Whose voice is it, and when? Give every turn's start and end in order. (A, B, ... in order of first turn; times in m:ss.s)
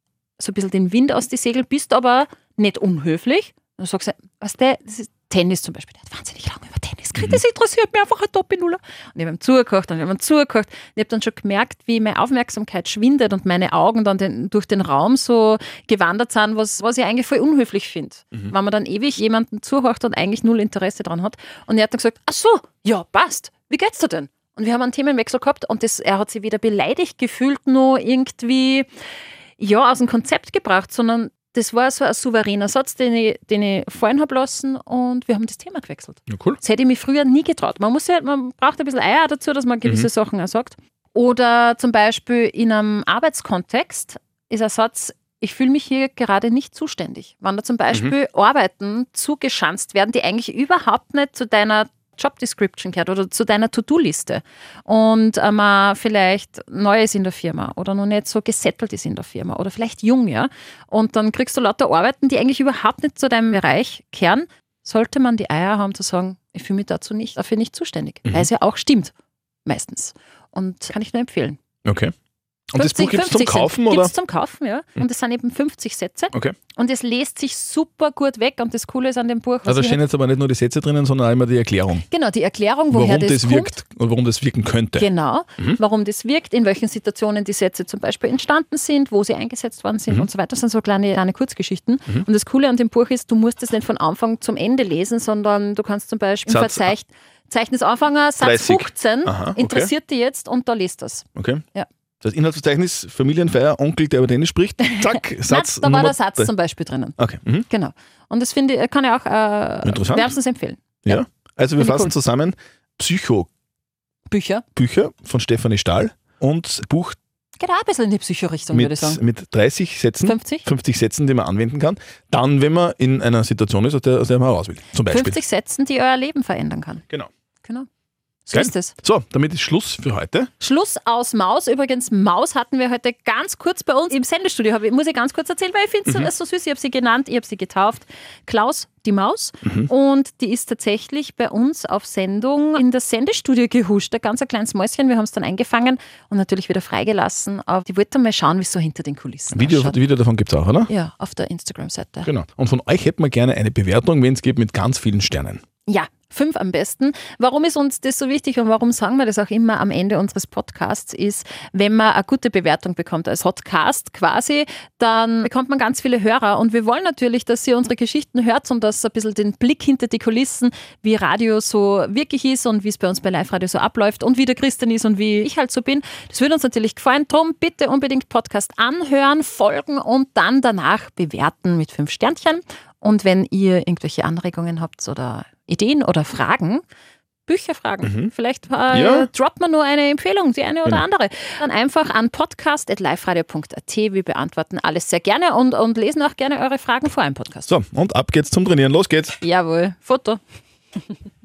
0:00.4-0:28.9 A
0:07.2-0:07.4 B
0:29.6-1:09.1 A
0:36.3-0:36.6 B
1:09.6-1:11.6 A
1:11.8-1:12.1 B
1:12.7-1:14.1 B
1:12.8-1:20.0 A
1:19.7-1:22.0 B
1:22.1-1:23.7 A
1:22.9-1:25.8 B
1:25.0-1:41.9 A
1:36.5-1:36.9 B
1:38.4-1:39.9 B
1:41.4-1:41.6 B
1:42.2-1:46.5 B
1:44.8-1:47.2 A
1:47.2-1:47.7 B
1:47.7-1:51.2 A
1:49.8-1:50.4 B
1:51.0-1:53.5 B
1:51.8-1:52.1 A
1:54.3-1:54.6 A
1:54.8-1:57.2 B
1:57.6-1:59.2 A
1:58.7-2:05.4 B
2:00.2-2:00.6 A
2:05.1-2:07.0 A
2:08.5-2:09.0 A
2:08.5-2:10.5 B
2:10.6-2:30.0 A
2:16.1-2:16.3 B
2:29.5-2:30.9 B
2:30.9-2:32.3 A
2:32.2-2:35.6 B
2:35.9-3:06.8 A
3:07.5-3:17.7 A
3:08.0-3:08.3 B
3:08.9-3:09.3 B
3:17.7-3:19.4 B
3:19.4-3:20.4 A